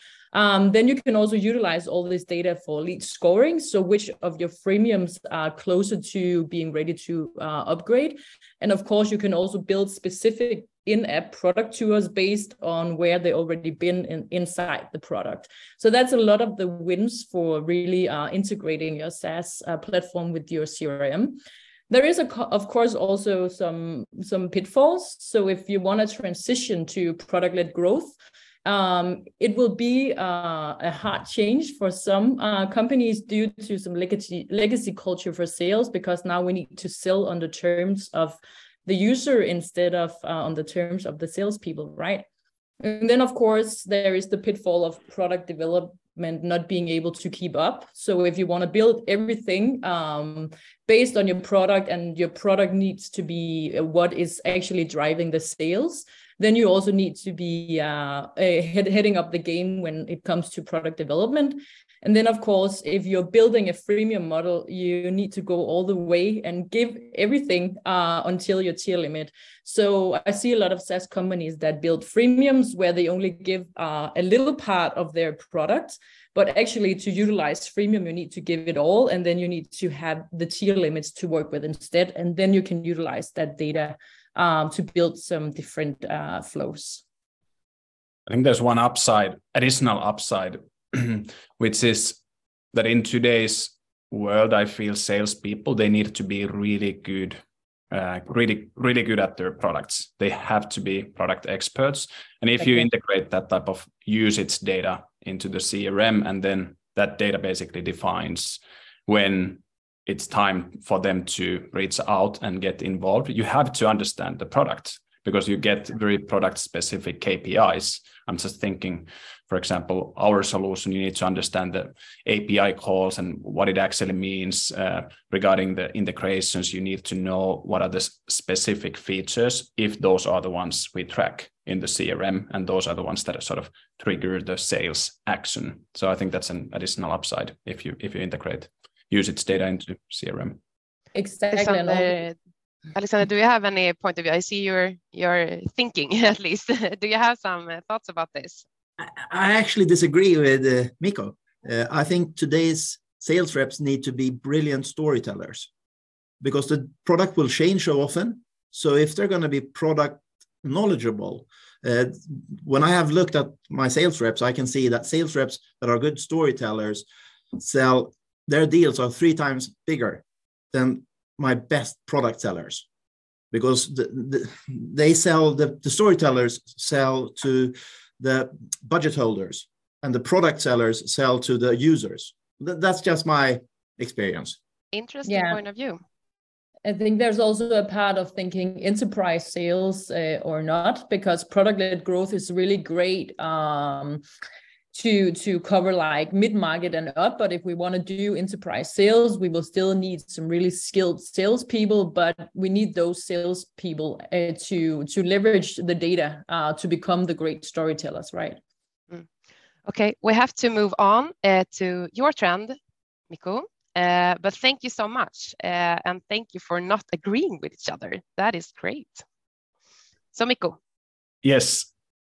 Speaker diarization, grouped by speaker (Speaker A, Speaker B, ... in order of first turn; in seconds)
Speaker A: 0.3-42.2, 42.8-87.0, 141.1-142.2, 185.2-185.6, 186.8-194.2, 194.9-208.6
Speaker B: 88.3-92.2, 92.7-97.4, 97.9-140.6, 221.4-221.9
Speaker C: 141.5-142.3, 142.9-148.6, 184.9-186.0, 209.9-212.8, 213.3-219.2, 220.3-220.8
Speaker D: 149.0-155.7, 156.4-172.8, 173.5-184.6